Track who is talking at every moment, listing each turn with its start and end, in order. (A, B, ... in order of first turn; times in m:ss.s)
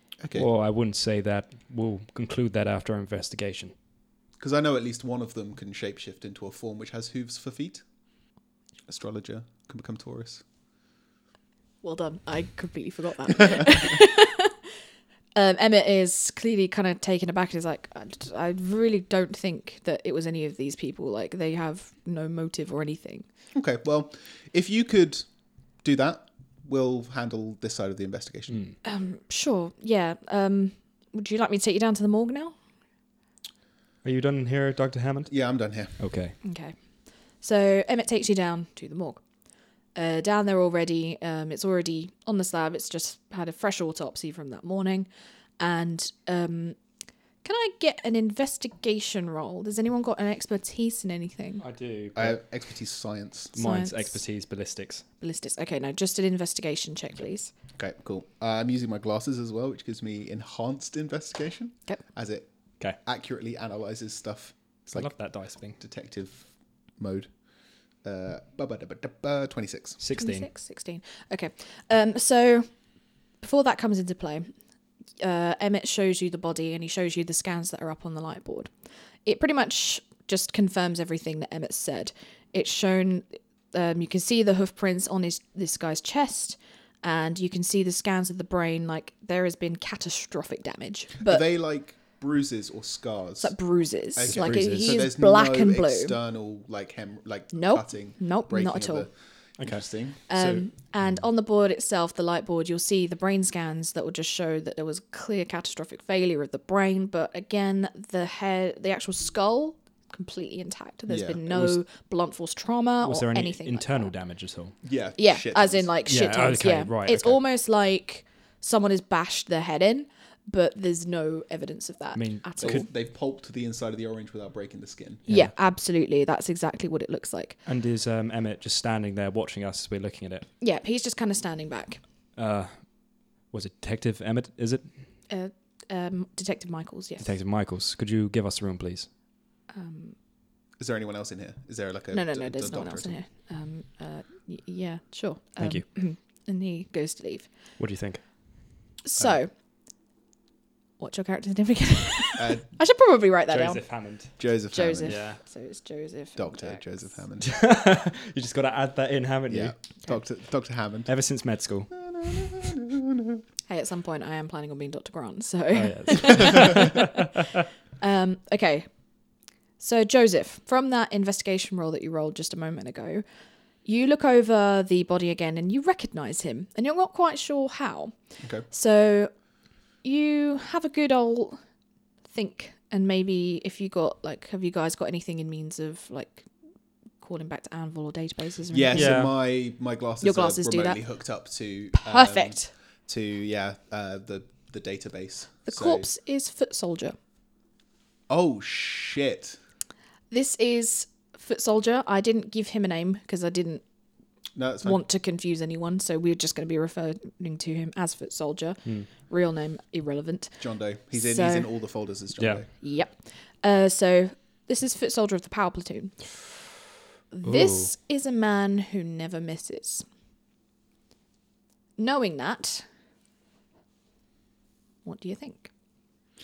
0:00.2-0:00.5 A
0:00.3-0:03.7 B
0:04.4-0:07.8 A
0:08.9-0:10.4 A
0:11.8-0:14.6 C
0:15.3-0:23.2 C
0:23.5-0:25.3 A
0:25.8-0:28.6 A
0:28.5-0:28.8 B
0:28.8-0:32.6 C
0:34.0-0:35.3 B
0:35.3-0:36.0 A
0:36.0-0:36.4 B
0:36.4-0:36.8 C
0:37.4-0:39.2 C
0:39.9-0:45.1 C
0:45.6-0:46.8 C
0:47.4-0:51.6 C
0:51.6-0:52.4 B
0:52.1-0:53.5 A
0:53.5-0:55.0 B
0:53.6-0:54.2 C
0:55.2-0:57.5 C
0:57.8-1:05.1 A
1:04.9-1:05.8 B
1:05.8-1:07.3 A
1:08.0-1:10.0 A
1:10.0-1:10.5 B
1:10.2-1:12.7 C
1:13.4-1:14.5 C
1:15.2-1:18.7 C
1:19.2-1:31.4 C
1:31.2-1:33.5 A
1:33.4-1:36.1 C
1:34.1-1:40.7 A
1:34.3-1:35.0 B
1:37.5-1:39.1 C
1:39.6-1:39.8 B
1:40.3-1:54.1 C
1:51.1-1:51.4 A
1:51.5-1:51.8 B
1:53.0-1:54.8 B
1:54.8-1:55.9 A
1:55.2-2:02.8 C
1:56.1-1:57.4 B
2:02.1-2:02.8 B
2:02.6-2:05.2 A
2:05.3-2:07.6 C
2:05.3-2:05.5 B
2:07.6-2:10.5 B
2:10.6-2:12.0 C
2:12.4-2:12.8 B
2:13.5-2:14.8 B
2:15.3-2:17.3 C
2:17.2-2:19.1 B
2:19.7-2:20.2 C
2:20.8-2:23.2 A
2:22.1-2:27.5 C
2:25.6-2:25.8 B
2:27.8-2:28.2 B
2:29.0-2:29.5 C
2:31.0-2:33.8 C
2:32.4-2:32.7 A
2:33.5-2:34.4 B
2:34.4-2:35.2 A
2:34.7-2:37.1 C
2:35.0-2:35.4 B
2:36.4-2:37.5 A
2:37.4-2:39.7 B
2:39.5-2:41.1 A
2:41.1-2:42.7 B
2:41.9-2:43.4 A
2:43.7-2:47.4 C
2:45.7-2:47.1 B
2:48.0-2:48.9 C
2:49.8-2:53.2 C
2:53.8-2:59.3 C
3:00.0-3:01.6 C
3:02.3-3:06.5 C
3:07.2-3:09.2 C
3:08.7-3:16.1 A
3:08.9-3:09.3 B
3:10.2-3:11.0 C
3:11.9-3:12.7 C
3:15.6-3:17.2 C
3:18.3-3:19.6 A
3:20.3-3:23.8 C
3:24.5-3:25.0 A
3:24.8-3:30.6 C
3:30.6-3:32.7 A
3:31.1-3:31.7 C
3:32.4-3:32.6 B
3:32.8-3:36.4 C
3:37.3-3:40.0 C
3:37.4-3:37.9 B
3:42.0-3:42.8 C
3:45.0-3:45.7 C